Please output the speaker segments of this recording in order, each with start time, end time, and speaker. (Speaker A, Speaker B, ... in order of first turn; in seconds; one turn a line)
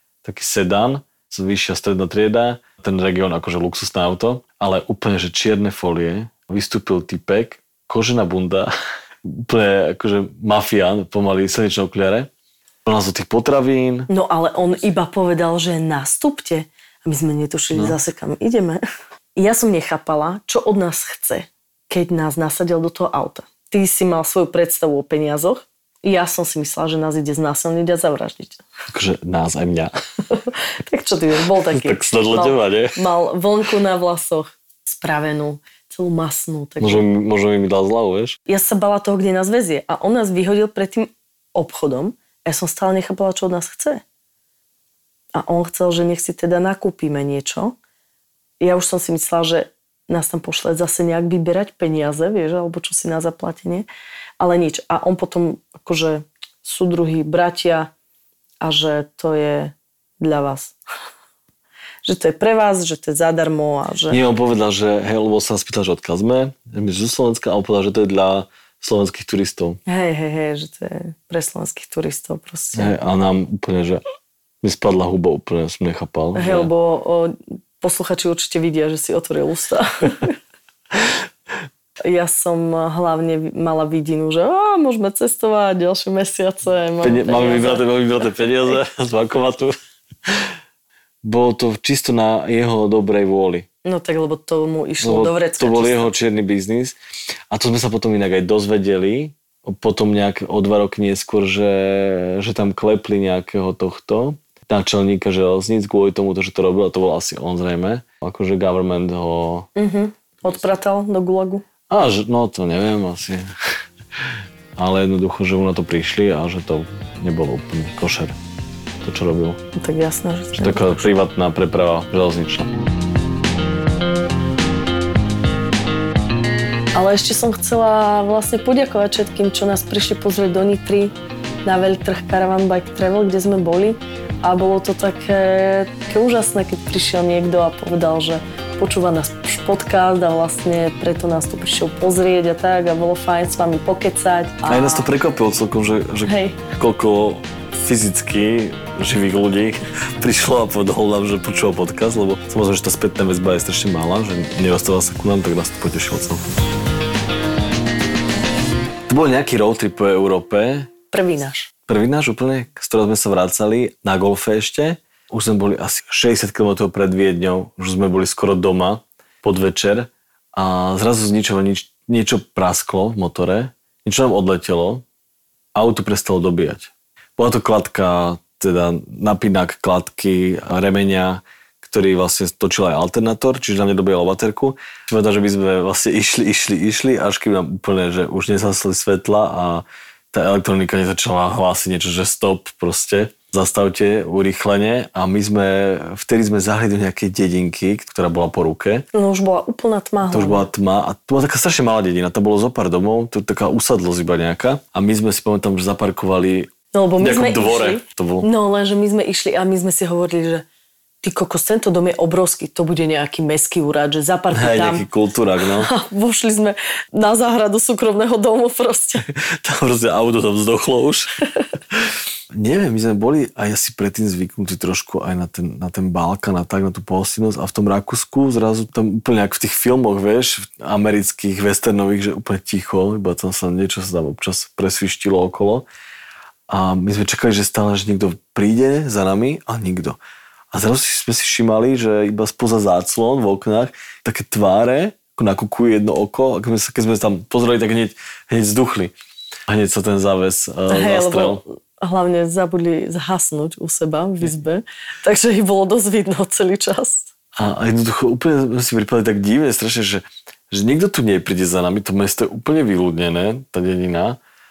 Speaker A: 0.2-8.7
Speaker A: 9.2-12.3
Speaker A: 12.8-14.1
Speaker B: 14.1-18.8
Speaker B: 19.4-28.6
Speaker A: 28.9-29.9
Speaker B: 30.4-37.0
Speaker A: 31.7-33.0
Speaker A: 36.8-38.4
Speaker B: 38.5-44.0
Speaker B: 45.3-47.8
Speaker B: 48.6-53.9
Speaker B: 54.4-57.9
Speaker B: 58.6-60.8
Speaker B: 62.0-64.2
Speaker A: 64.1-69.8
Speaker B: 69.9-72.9
Speaker A: 72.8-74.0
Speaker A: 74.6-76.7
Speaker B: 76.4-80.3
Speaker B: 82.0-87.9
Speaker A: 87.0-89.8
Speaker A: 91.2-93.7
Speaker B: 93.8-96.1
Speaker A: 95.0-97.0
Speaker A: 97.5-109.7
Speaker B: 109.8-111.7
Speaker A: 111.9-113.5
Speaker A: 114.2-118.4
Speaker A: 119.0-119.6
Speaker B: 119.8-121.0
Speaker A: 120.5-122.7
Speaker B: 127.0-145.1
Speaker A: 144.7-156.5
Speaker B: 146.2-146.6
Speaker A: 159.1-160.9
Speaker B: 161.1-161.7
Speaker A: 161.9-175.1
Speaker A: 175.8-199.1
Speaker B: 199.1-200.7
Speaker A: 200.3-208.5
Speaker B: 206.9-210.6
Speaker B: 211.2-215.1
Speaker A: 214.5-215.9
Speaker B: 215.8-219.2
Speaker A: 219.3-221.3
Speaker A: 221.9-235.9
Speaker A: 236.7-240.2
Speaker A: 240.7-249.1
Speaker A: 249.7-251.6
Speaker B: 250.9-257.3
Speaker A: 257.6-264.4